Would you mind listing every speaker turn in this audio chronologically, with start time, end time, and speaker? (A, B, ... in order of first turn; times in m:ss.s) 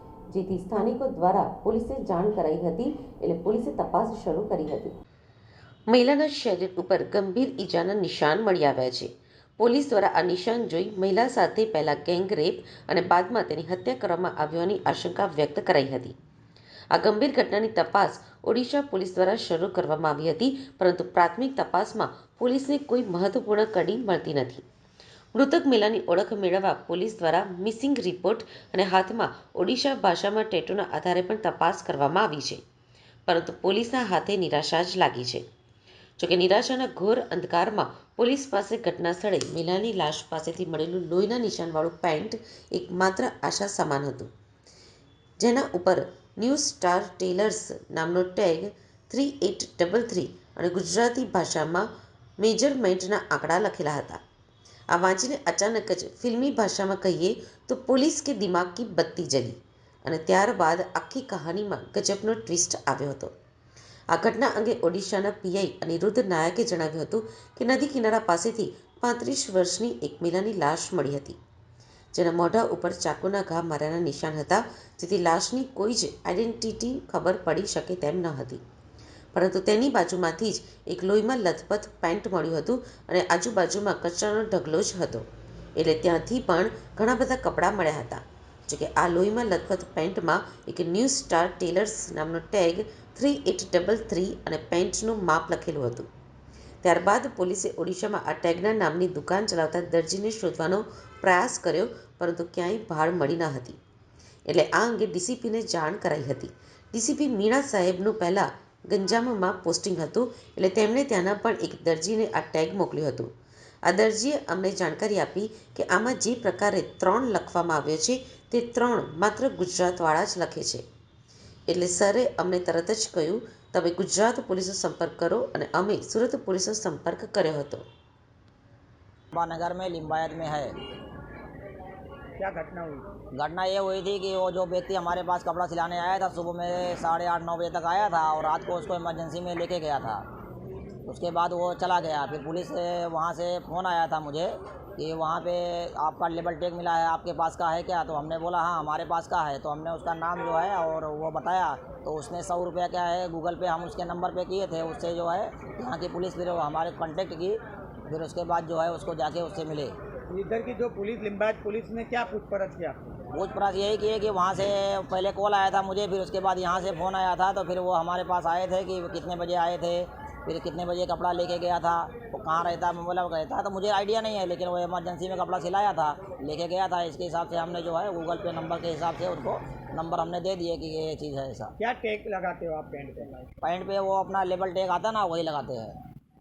0:00.3-0:05.0 A
0:05.9-0:16.2 A
0:16.9-0:24.6 A
0:25.3-0:32.6 A
0:33.3-0:35.5 A
0:36.2-0:44.3 A
0:45.4-0:51.9 A
0:52.4-0:54.2 A
0:54.9-1:03.3 A
1:04.1-1:11.4 A
1:12.2-1:18.6 A
1:19.3-1:36.1 A
1:36.8-1:43.8 A
1:44.5-1:53.3 A
1:53.8-2:00.8 A
2:01.7-2:07.8 A
2:09.3-2:10.7 B
2:12.4-2:13.1 C
2:13.4-2:20.2 B
2:21.1-2:39.9 B
2:40.3-2:43.0 C
2:43.3-3:01.7 B
3:01.8-3:03.5 C
3:03.6-3:06.0 B